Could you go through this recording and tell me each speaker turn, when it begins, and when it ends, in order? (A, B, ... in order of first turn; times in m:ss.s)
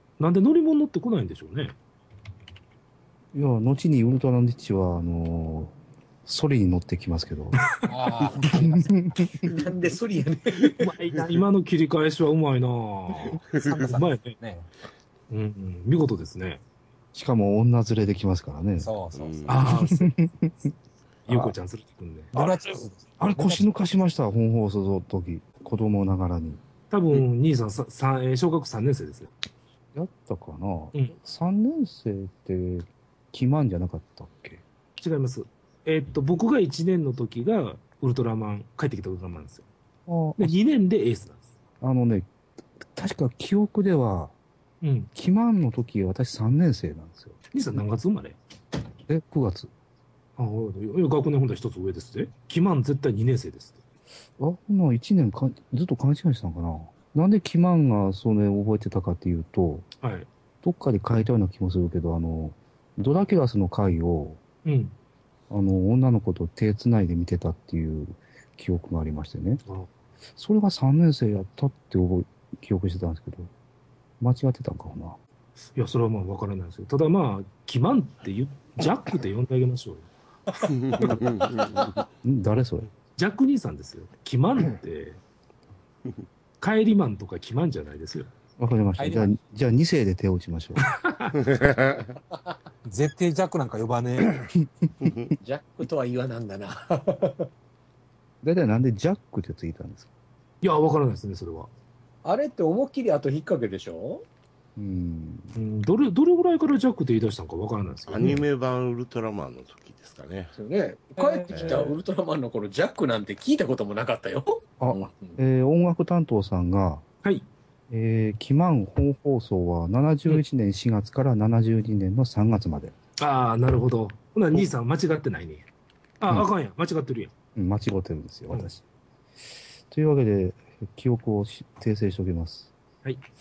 0:00.2-0:01.8 A
0:03.3-0:05.7 B
0:06.2-0:07.6 B
0:07.9-0:08.9 C
0:08.4-0:09.5 B
0:09.5-0:10.8 D
0:10.8-0:14.3 A
0:13.6-0:14.7 C
0:15.3-0:16.6 A
0:17.1-0:18.9 B
0:18.8-0:19.5 C
0:19.1-0:19.7 E
0:19.5-0:20.1 A
0:19.6-0:20.7 B
0:21.3-0:22.3 A
0:21.3-0:21.6 B
0:22.3-0:23.6 C
0:23.2-0:26.6 B
0:26.9-0:29.3 A
0:29.9-0:34.6 B
0:35.0-0:39.7 A
0:40.1-0:40.6 B
0:40.4-0:41.4 A
0:41.8-0:42.3 B
0:42.9-0:44.3 B
0:44.8-0:45.1 A
0:45.2-0:47.4 B
0:47.5-0:48.4 A
0:49.1-0:49.7 B
0:50.4-0:53.8 A
0:54.4-0:59.9 B
1:00.0-1:00.3 A
1:00.6-1:04.4 B
1:04.6-1:05.0 A
1:05.5-1:09.6 B
1:10.4-1:13.5 B
1:14.2-1:15.2 B
1:15.8-1:20.1 A
1:20.6-1:21.9 E
1:22.2-1:22.9 B
1:23.2-1:25.2 A
1:26.6-1:28.3 A
1:28.6-1:30.9 B
1:31.0-1:31.4 A
1:31.5-1:32.1 E
1:32.8-1:34.4 C
1:35.0-1:35.3 E
1:35.4-1:37.5 D
1:38.4-1:40.1 B
1:40.6-1:41.7 A
1:42.2-1:44.2 D
1:44.8-1:45.6 B
1:45.6-1:48.4 A
1:48.1-1:50.5 E
1:48.2-1:48.4 B
1:50.6-1:55.4 D
1:51.2-1:51.9 A
1:51.5-1:52.0 E
1:54.8-1:57.0 B
1:57.9-2:02.9 B
2:03.2-2:05.6 A
2:06.2-2:07.3 A
2:07.6-2:08.8 B
2:09.9-2:12.7 B